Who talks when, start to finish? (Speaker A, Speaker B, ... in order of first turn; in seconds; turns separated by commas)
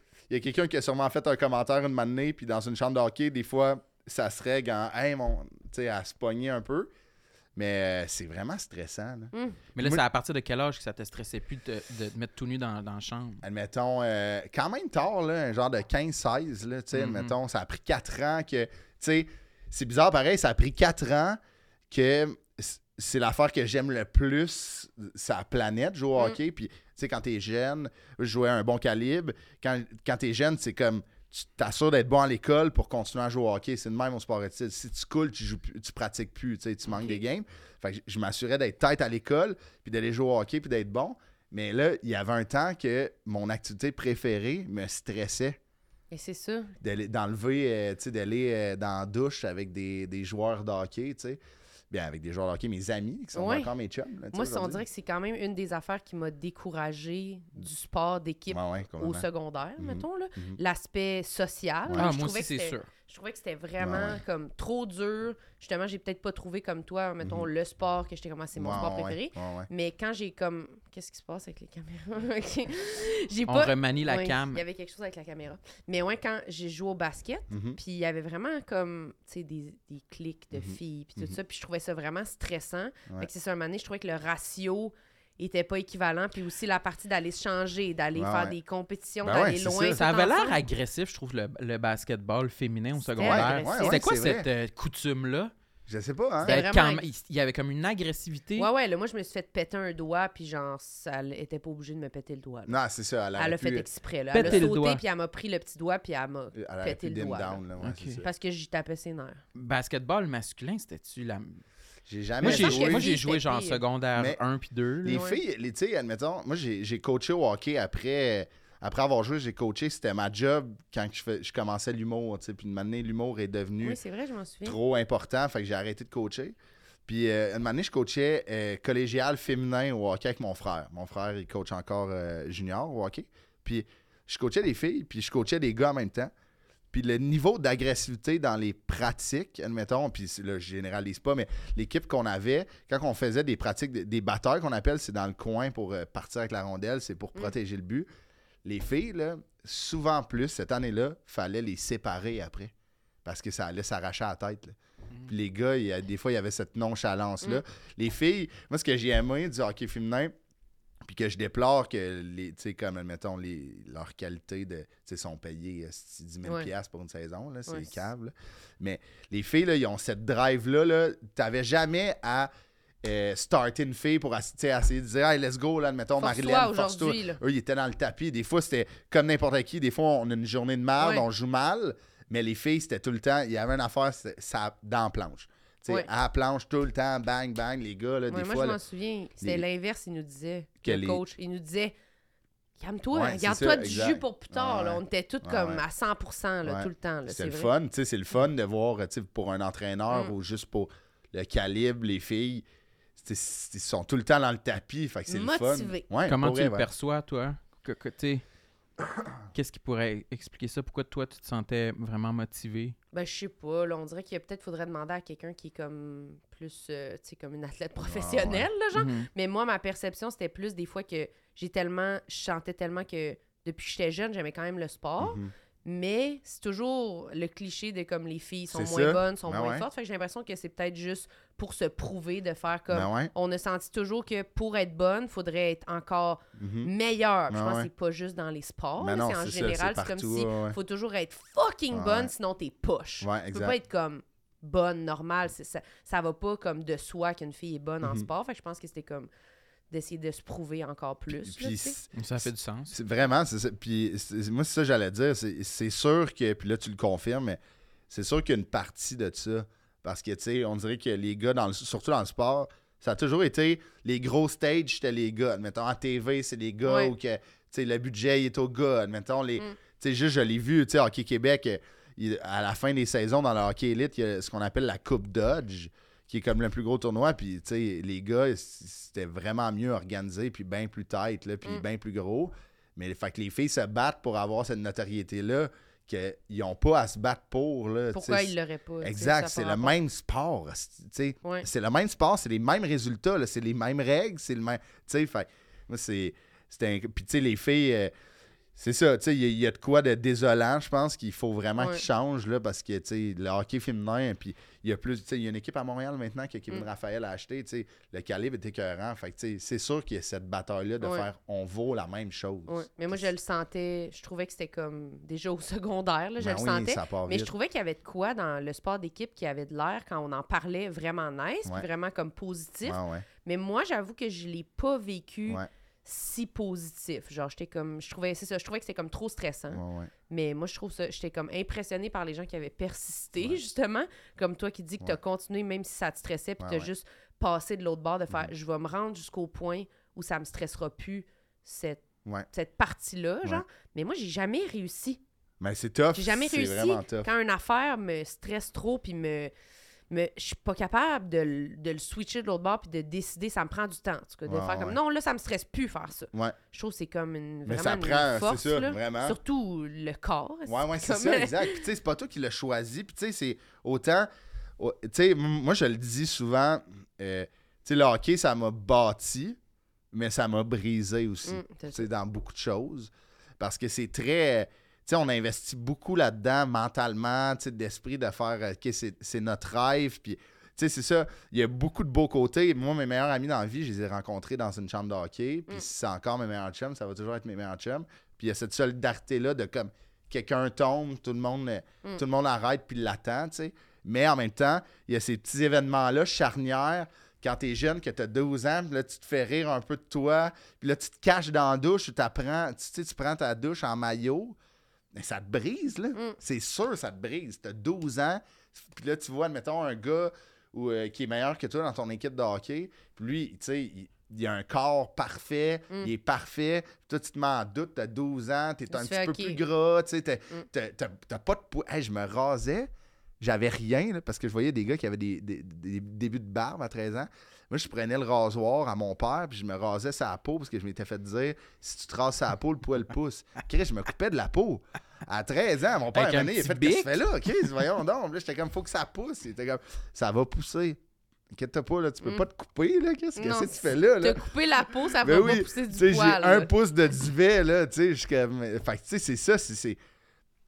Speaker A: 0.3-6.9, Speaker A: 7.5-10.0, Speaker B: 9.3-9.6, Speaker C: 9.8-13.4, Speaker A: 13.4-21.4, Speaker C: 16.9-17.3, Speaker A: 21.9-45.6, Speaker B: 46.1-46.7, Speaker A: 46.8-51.4, Speaker A: 51.9-54.8, Speaker B: 53.3-53.7, Speaker B: 54.3-90.6, Speaker A: 58.5-59.3, Speaker A: 59.8-60.6, Speaker C: 62.0-62.9, Speaker A: 63.8-64.2, Speaker A: 67.2-67.5, Speaker A: 68.6-69.7, Speaker C: 73.5-74.6, Speaker A: 77.5-77.8, Speaker A: 80.5-81.4, Speaker A: 88.2-88.5, Speaker A: 89.2-90.0, Speaker C: 89.9-95.5, Speaker B: 93.0-94.0, Speaker A: 93.2-94.5, Speaker A: 95.9-96.6, Speaker B: 96.4-97.0, Speaker C: 96.4-98.7, Speaker B: 98.6-102.7, Speaker A: 102.7-103.8, Speaker B: 103.4-107.6, Speaker C: 104.3-105.0, Speaker A: 104.4-104.7, Speaker A: 106.5-108.3, Speaker C: 107.8-108.2, Speaker B: 108.2-109.4, Speaker C: 109.5-111.6, Speaker A: 112.1-113.1, Speaker B: 112.4-113.8, Speaker C: 112.4-115.2, Speaker A: 115.0-124.0, Speaker B: 115.1-115.4, Speaker B: 123.8-124.8, Speaker A: 124.6-126.5, Speaker A: 127.1-136.3, Speaker A: 136.9-148.1, Speaker A: 148.6-152.7, Speaker A: 153.2-160.3, Speaker A: 161.0-172.5, Speaker B: 166.4-166.7, Speaker B: 167.7-167.9, Speaker A: 173.0-188.8, Speaker B: 176.2-177.4, Speaker B: 181.0-181.2, Speaker B: 188.3-191.9, Speaker A: 190.8-191.2, Speaker B: 192.8-197.7, Speaker A: 193.1-195.8, Speaker A: 196.6-202.6, Speaker A: 203.2-206.9, Speaker B: 205.3-206.1, Speaker C: 206.2-208.4, Speaker C: 209.5-212.9, Speaker B: 213.1-249.3, Speaker A: 218.0-218.7, Speaker C: 218.9-219.3, Speaker A: 225.2-225.5, Speaker A: 228.7-229.8, Speaker A: 232.9-233.3, Speaker A: 236.6-236.9, Speaker A: 237.5-237.9, Speaker A: 239.0-240.8, Speaker A: 241.9-242.3, Speaker A: 243.2-243.8, Speaker A: 248.0-248.3, Speaker B: 249.9-252.0, Speaker A: 251.3-252.1, Speaker C: 252.1-252.9, Speaker A: 252.9-298.1, Speaker B: 266.9-267.1, Speaker B: 288.1-289.9, Speaker A: 298.8-313.2, Speaker B: 301.8-302.0, Speaker B: 311.0-311.3, Speaker B: 312.7-345.2, Speaker A: 316.4-317.5, Speaker A: 322.8-323.3, Speaker A: 329.7-330.1, Speaker A: 336.6-336.9, Speaker A: 345.6-347.3, Speaker B: 346.1-349.5, Speaker B: 350.1-361.8, Speaker A: 354.5-355.0, Speaker A: 357.6-359.4, Speaker A: 360.7-369.6, Speaker A: 370.1-404.6, Speaker B: 371.4-372.1, Speaker A: 405.1-422.9, Speaker B: 418.9-419.6, Speaker A: 423.4-441.0, Speaker C: 436.1-437.2, Speaker A: 441.5-444.4, Speaker B: 443.4-446.7, Speaker A: 445.2-450.0